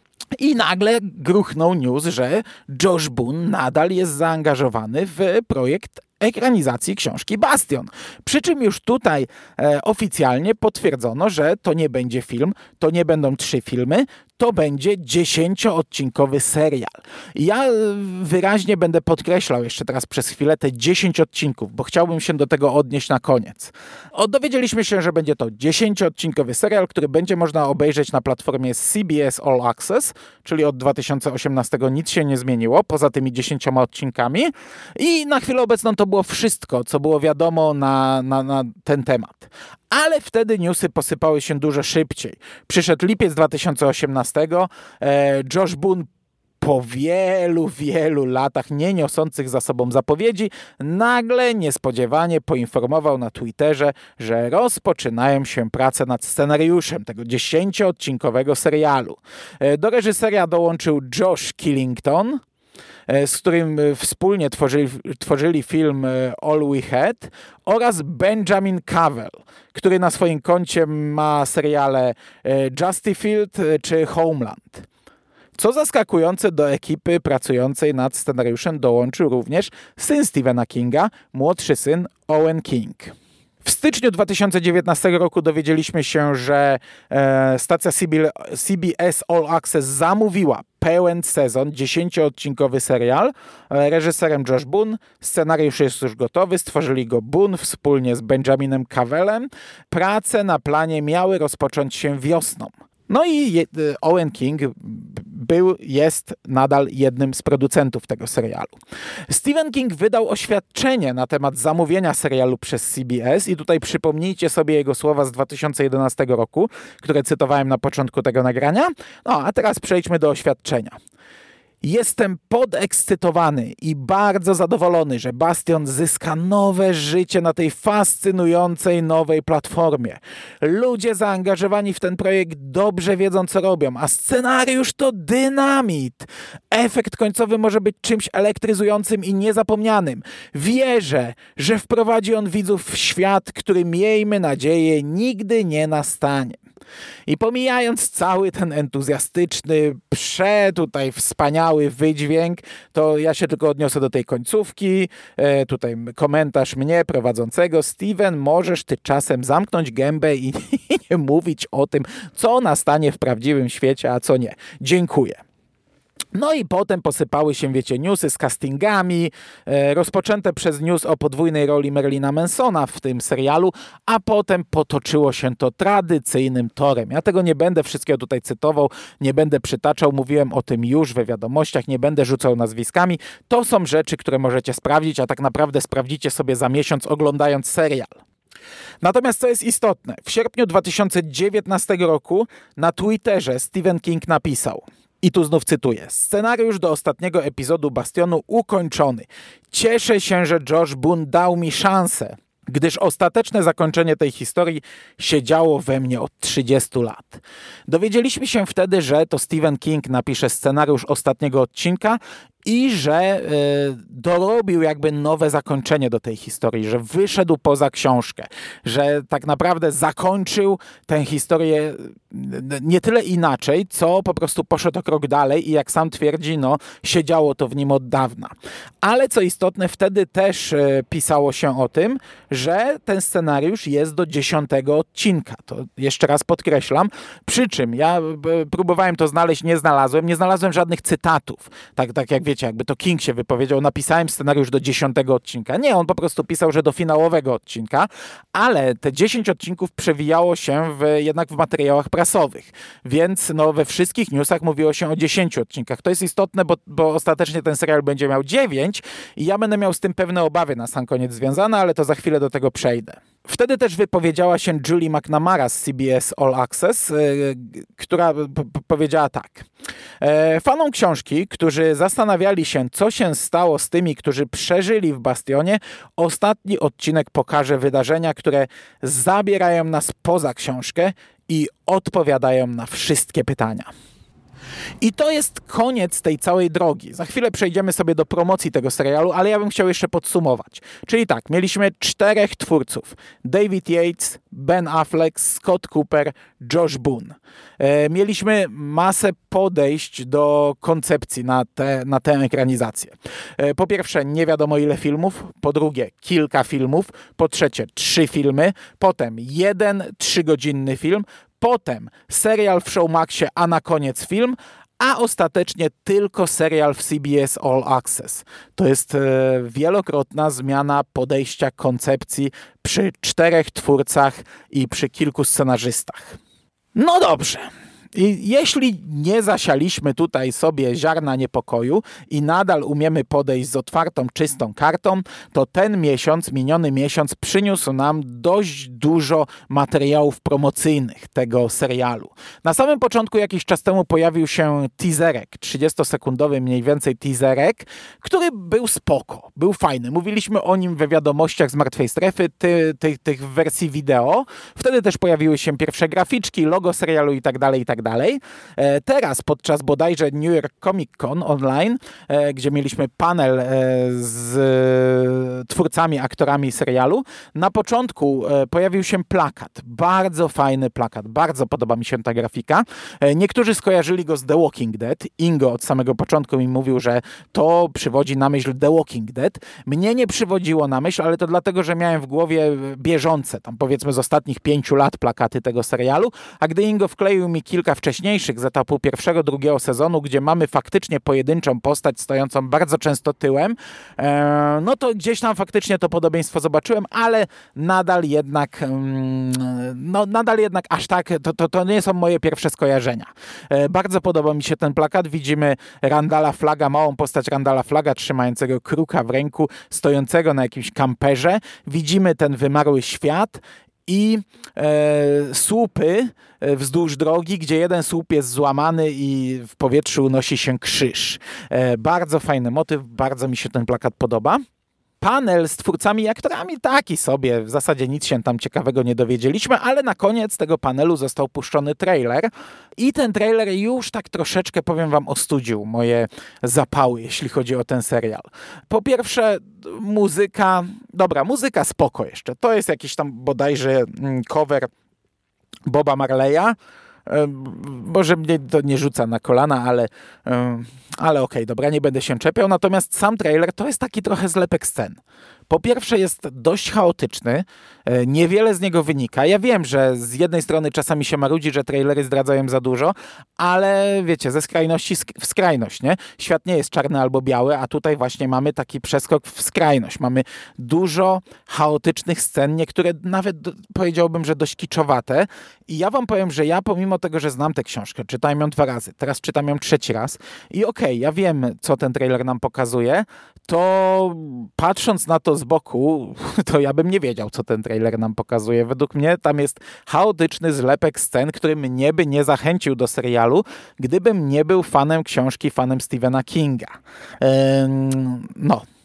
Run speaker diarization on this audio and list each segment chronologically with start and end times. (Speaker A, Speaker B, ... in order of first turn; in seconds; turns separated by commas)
Speaker A: 0.4-46.1, Speaker A: 46.6-62.4, Speaker A: 63.1-74.9, Speaker A: 75.6-108.7, Speaker A: 109.3-121.0, Speaker A: 121.8-146.6, Speaker A: 147.3-165.4, Speaker A: 166.3-188.1, Speaker A: 189.0-269.7, Speaker A: 270.2-283.9, Speaker A: 285.0-326.4, Speaker A: 327.0-424.6, Speaker A: 425.2-444.9, Speaker A: 445.9-446.8, Speaker A: 447.3-498.8